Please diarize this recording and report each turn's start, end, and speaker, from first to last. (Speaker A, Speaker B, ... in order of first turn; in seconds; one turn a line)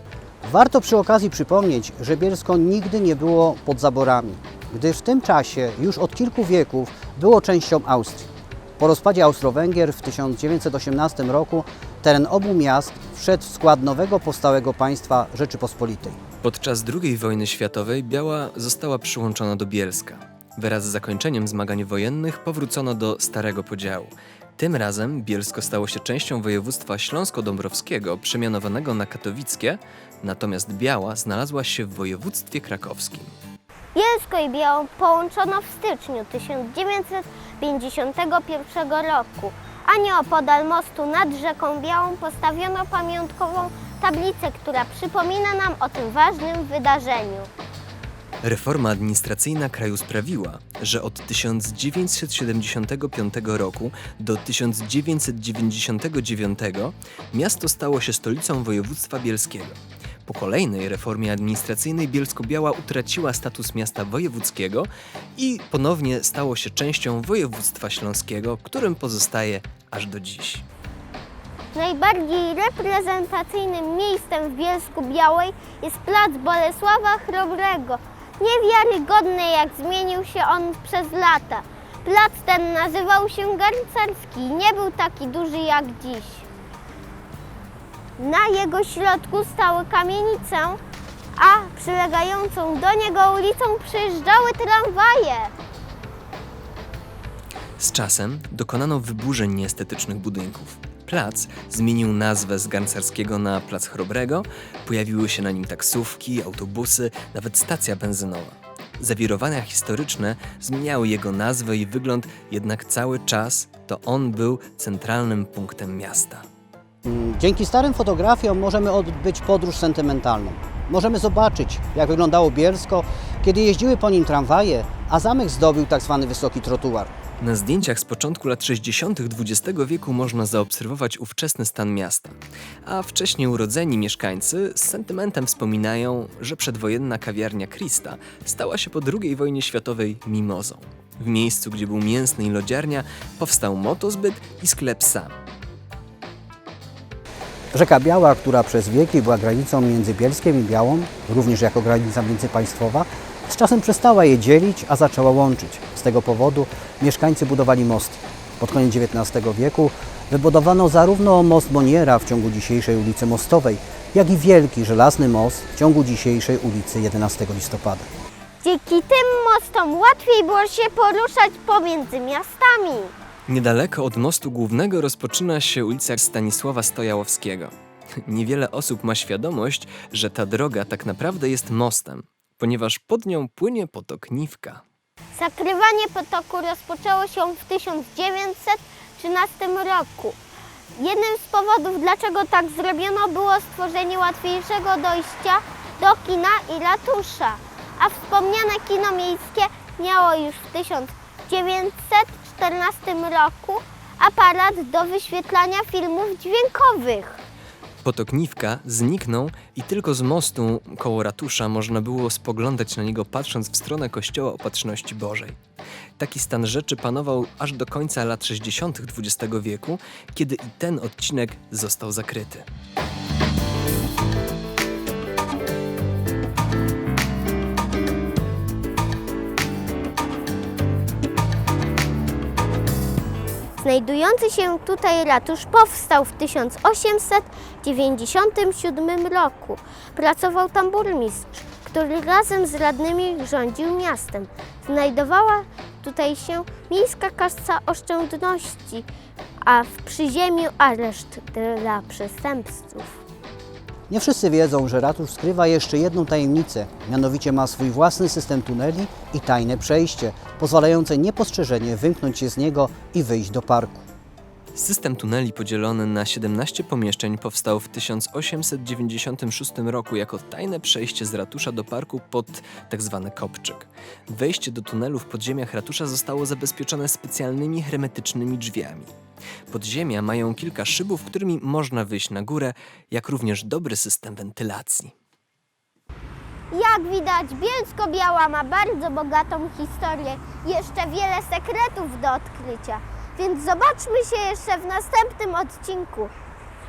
Speaker A: 0.4-16.2
Speaker B: 16.4-33.3
Speaker C: 33.9-47.5
Speaker B: 48.4-70.6
Speaker C: 71.7-86.5
Speaker C: 88.2-90.8
Speaker C: 91.3-95.5
Speaker B: 97.8-116.4
Speaker A: 117.0-127.1
Speaker B: 127.4-145.3
Speaker A: 147.7-168.1
Speaker C: 168.6-173.1
Speaker B: 173.5-177.7
Speaker B: 178.2-184.8
Speaker C: 185.3-190.4
Speaker C: 190.9-207.4
Speaker B: 208.0-215.6
Speaker B: 216.2-222.7
Speaker C: 233.8-249.1
Speaker C: 249.6-253.2
Speaker A: 254.1-264.1
Speaker B: 264.7-279.1
Speaker B: 279.7-285.1
Speaker C: 286.7-296.3